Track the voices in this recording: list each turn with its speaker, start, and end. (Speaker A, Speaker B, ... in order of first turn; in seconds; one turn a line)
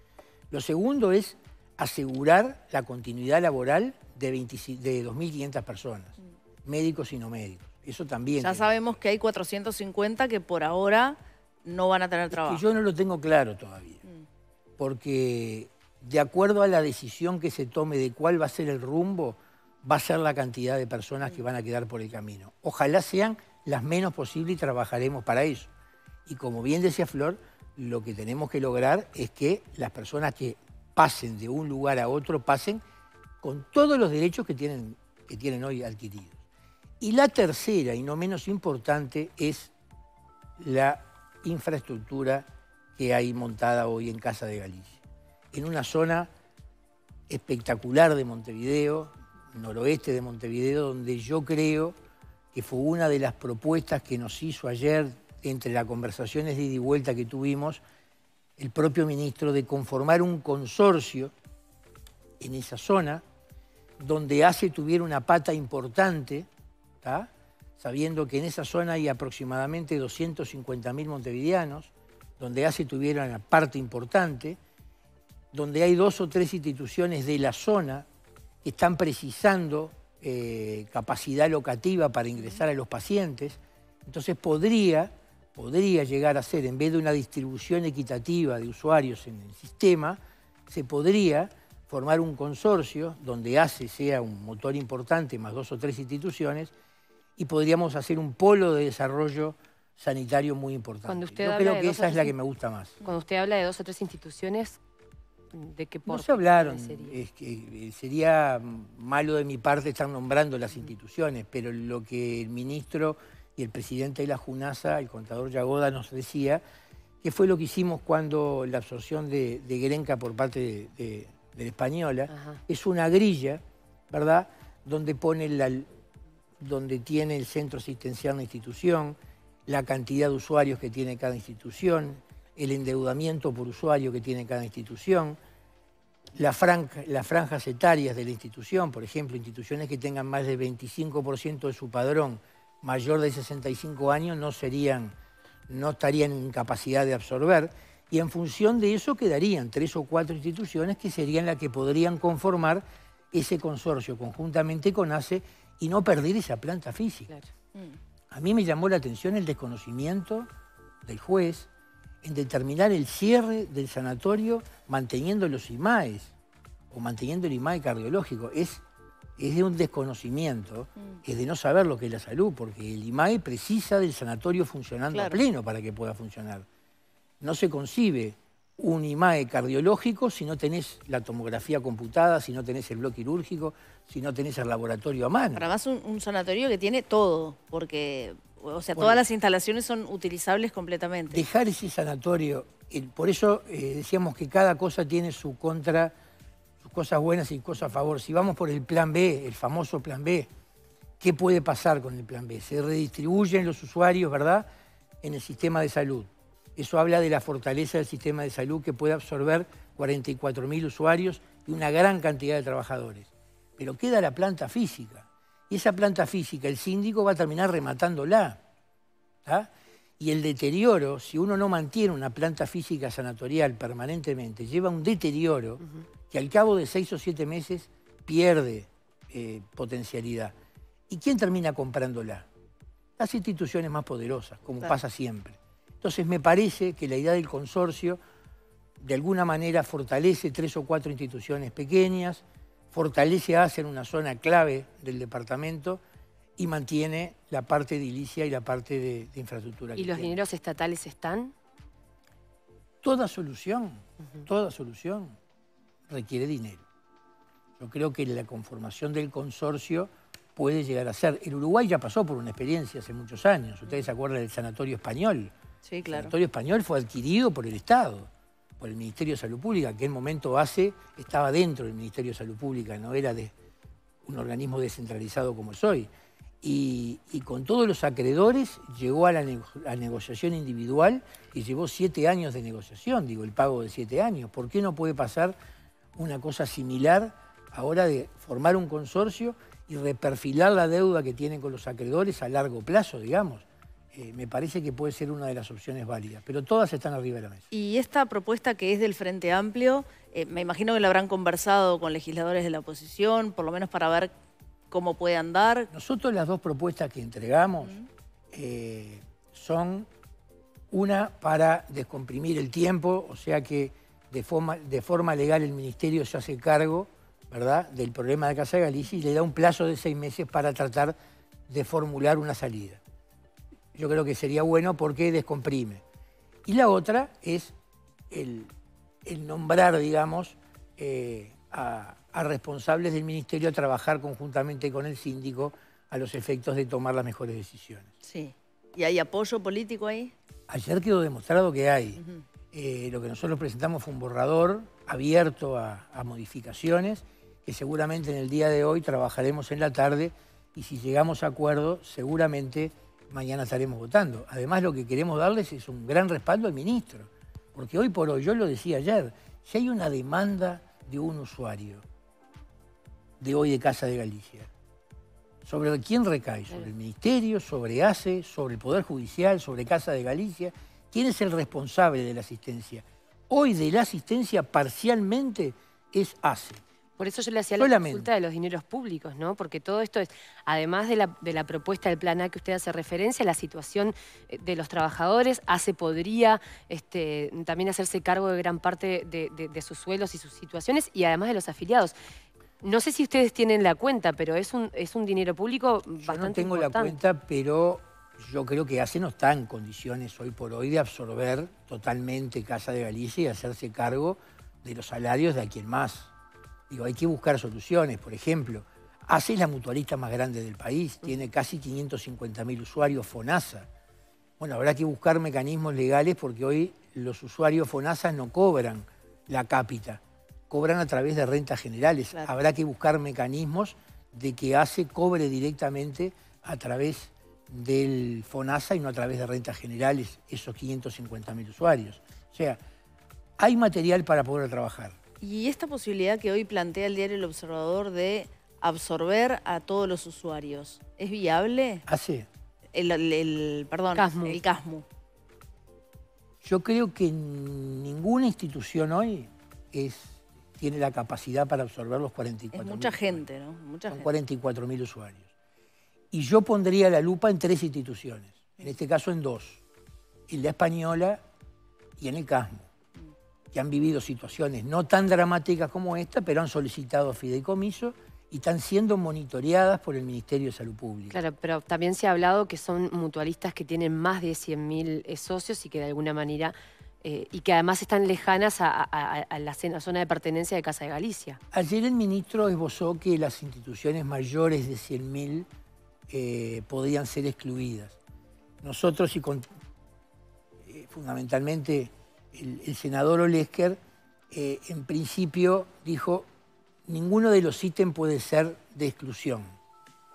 Speaker A: 0.5-8.8
Speaker B: 8.4-12.6
Speaker A: 12.3-14.0
Speaker A: 14.8-25.7
Speaker A: 26.3-32.8
Speaker A: 33.4-36.4
Speaker A: 37.0-39.7
Speaker A: 40.6-46.3
Speaker A: 47.3-52.0
Speaker A: 52.5-57.8
Speaker A: 58.6-61.3
Speaker A: 62.4-63.2
Speaker A: 64.0-66.5
Speaker A: 67.0-74.6
Speaker A: 75.5-78.1
Speaker A: 78.6-96.7
Speaker A: 97.4-103.0
Speaker C: 101.1-102.3
Speaker C: 103.0-104.8
Speaker C: 105.5-107.2
Speaker A: 106.1-116.6
Speaker A: 117.2-125.9
Speaker C: 122.3-122.6
Speaker A: 126.6-135.4
Speaker A: 136.4-145.1
Speaker A: 145.7-157.3
Speaker A: 158.3-160.5
Speaker A: 161.0-161.7
Speaker A: 162.2-166.3
Speaker A: 166.9-168.8
Speaker A: 169.4-176.7
Speaker B: 175.1-175.4
Speaker A: 177.4-185.7
Speaker B: 185.6-191.4
Speaker A: 189.0-189.2
Speaker A: 191.3-196.1
Speaker A: 196.8-200.5
Speaker A: 201.2-204.7
Speaker A: 205.2-218.6
Speaker A: 219.4-230.6
Speaker A: 231.1-232.5
Speaker A: 233.2-238.2
Speaker A: 239.0-246.0
Speaker A: 246.6-250.4
Speaker C: 250.0-251.5
Speaker A: 253.0-255.4
Speaker A: 256.1-256.9
Speaker A: 257.8-265.5
Speaker B: 265.9-266.3
Speaker A: 266.1-273.5
Speaker A: 274.2-276.1
Speaker A: 276.6-285.6
Speaker A: 286.1-297.7
Speaker B: 297.7-304.3
Speaker B: 304.9-305.9
Speaker A: 305.9-307.9
Speaker B: 307.8-308.1
Speaker A: 308.5-310.1
Speaker A: 310.9-321.1
Speaker A: 321.7-323.0
Speaker A: 323.9-326.0
Speaker A: 326.7-327.8
Speaker A: 328.3-328.7
Speaker A: 329.2-338.1
Speaker B: 338.2-340.3
Speaker A: 340.7-362.0
Speaker A: 363.4-364.7
Speaker A: 365.6-376.8
Speaker C: 377.2-392.1
Speaker A: 377.8-378.3
Speaker C: 392.8-397.2
Speaker A: 396.2-406.3
Speaker A: 406.9-413.9
Speaker A: 414.6-432.8
Speaker A: 433.6-435.2
Speaker B: 435.4-442.1
Speaker A: 442.1-442.5
Speaker B: 442.9-445.1
Speaker C: 444.1-444.6
Speaker A: 446.6-453.4
Speaker B: 452.7-454.3
Speaker A: 454.1-455.5
Speaker A: 456.3-459.8
Speaker A: 460.5-461.4
Speaker A: 462.2-462.9
Speaker A: 463.7-471.4
Speaker C: 471.3-481.6
Speaker A: 481.7-485.7
Speaker A: 486.3-488.2
Speaker A: 488.8-489.7
Speaker A: 490.8-494.0
Speaker A: 494.5-496.5
Speaker A: 497.1-499.7